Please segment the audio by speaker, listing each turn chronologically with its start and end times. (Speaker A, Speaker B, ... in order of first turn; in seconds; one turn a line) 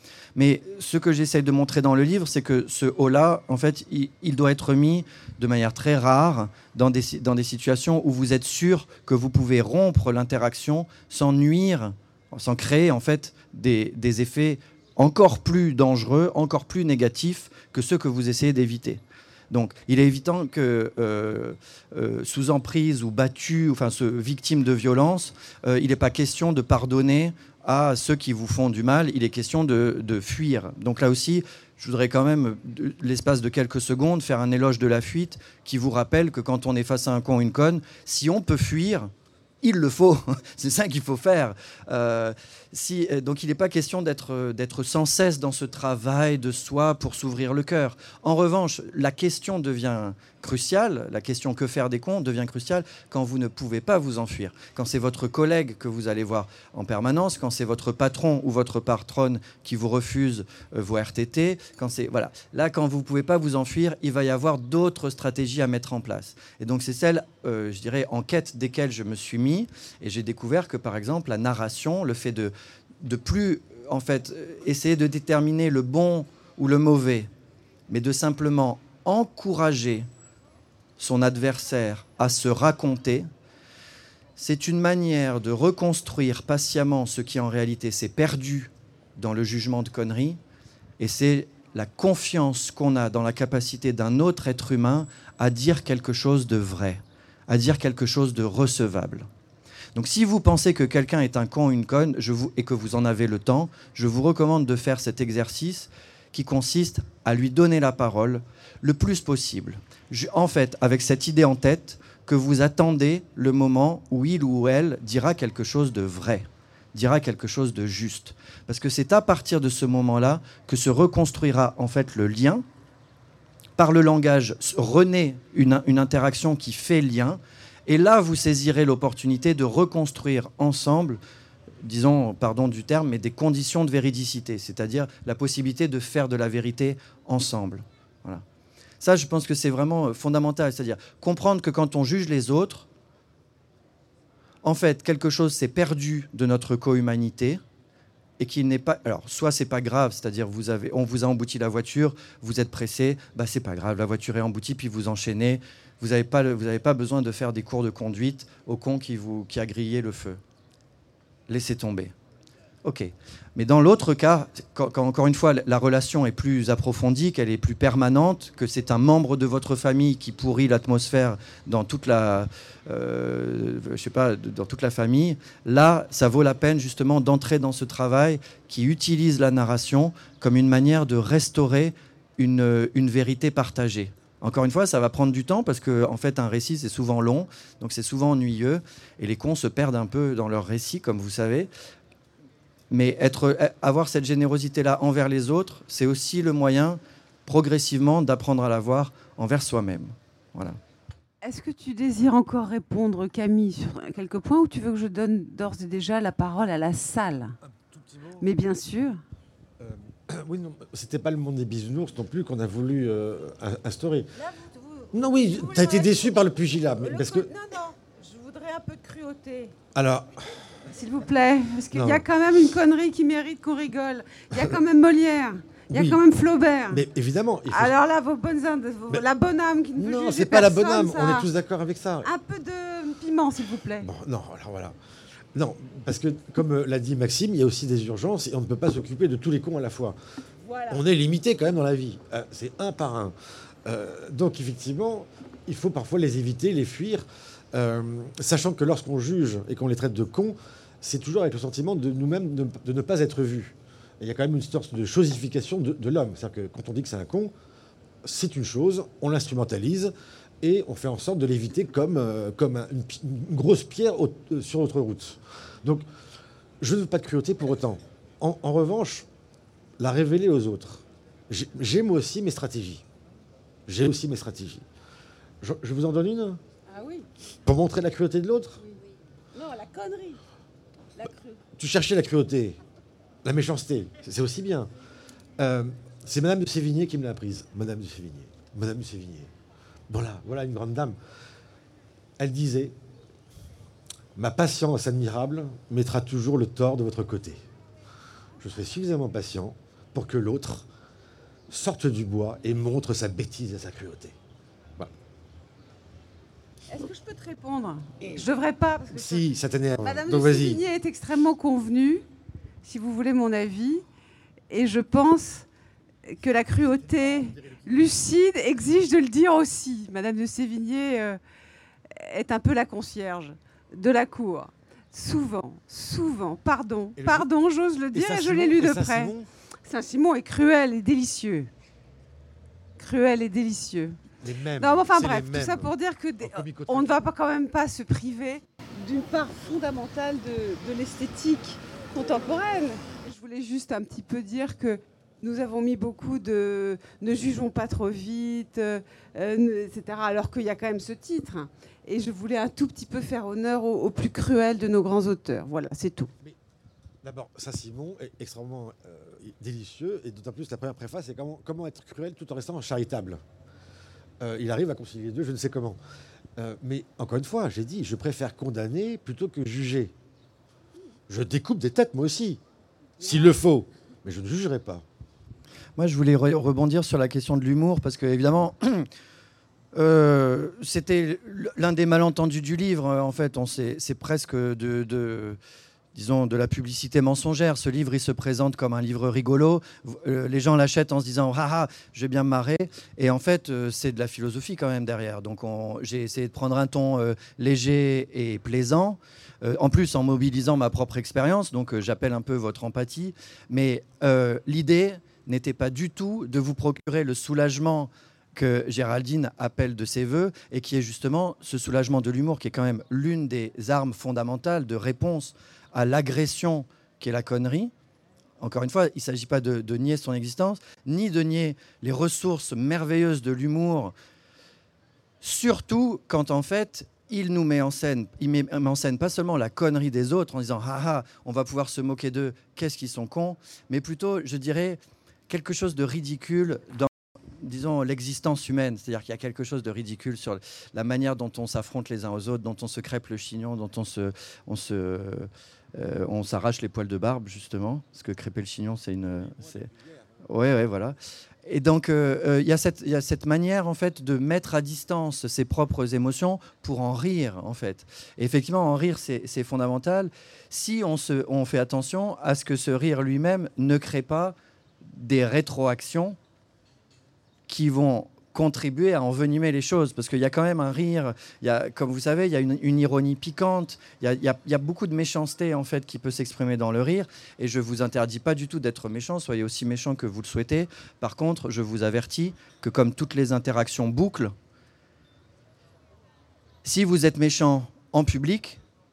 Speaker A: 0.3-77.3
Speaker A: 77.9-80.0
Speaker A: 81.0-83.3
Speaker A: 84.4-90.4
Speaker A: 91.0-99.3
Speaker A: 99.9-122.6
Speaker A: 123.8-131.2
Speaker A: 131.8-138.4
Speaker A: 139.0-142.9
Speaker A: 144.6-147.6
Speaker A: 148.4-160.4
Speaker A: 161.5-162.1
Speaker A: 162.8-191.7
Speaker A: 192.9-200.8
Speaker B: 201.4-207.6
Speaker C: 207.6-208.5
Speaker B: 208.4-209.2
Speaker C: 209.8-214.3
Speaker B: 214.3-216.3
Speaker C: 215.1-217.5
Speaker B: 216.9-219.7
Speaker C: 219.9-220.7
Speaker B: 220.9-227.0
Speaker C: 221.9-222.2
Speaker C: 225.9-226.2
Speaker C: 226.9-227.9
Speaker B: 227.7-231.5
Speaker C: 229.9-232.3
Speaker B: 232.2-234.1
Speaker C: 234.0-234.9
Speaker C: 235.5-240.2
Speaker B: 240.7-241.0
Speaker C: 240.9-243.3
Speaker C: 243.8-257.5
Speaker C: 258.2-260.1
Speaker C: 260.6-266.0
Speaker C: 266.8-269.2
Speaker C: 270.0-273.0
Speaker C: 273.9-274.8
Speaker C: 275.6-276.6
Speaker B: 276.9-277.3
Speaker C: 277.6-278.8
Speaker B: 279.5-280.4
Speaker B: 281.1-281.6
Speaker C: 281.8-282.8
Speaker C: 283.4-284.9
Speaker C: 285.6-289.5
Speaker C: 290.1-291.1
Speaker C: 292.4-292.9
Speaker C: 294.4-297.6
Speaker C: 298.6-300.9
Speaker C: 301.7-304.4
Speaker B: 306.9-309.4
Speaker C: 309.1-310.8
Speaker B: 310.0-312.2
Speaker B: 312.8-314.0
Speaker B: 314.7-315.7
Speaker B: 316.3-321.4
Speaker C: 317.4-317.9
Speaker B: 322.1-329.3
Speaker C: 327.1-327.5
Speaker C: 328.1-329.5
Speaker B: 329.8-331.7
Speaker B: 333.0-334.2
Speaker C: 334.4-337.1
Speaker B: 334.8-356.3
Speaker C: 357.2-363.4
Speaker C: 364.4-366.0
Speaker C: 366.6-370.1
Speaker C: 371.3-372.6
Speaker C: 373.2-375.0
Speaker A: 376.0-379.1
Speaker A: 379.9-385.6
Speaker A: 386.1-417.9
Speaker A: 418.6-424.1
Speaker A: 425.4-449.9
Speaker C: 449.6-449.9
Speaker A: 450.4-466.4
Speaker A: 467.7-484.5
Speaker A: 486.8-488.8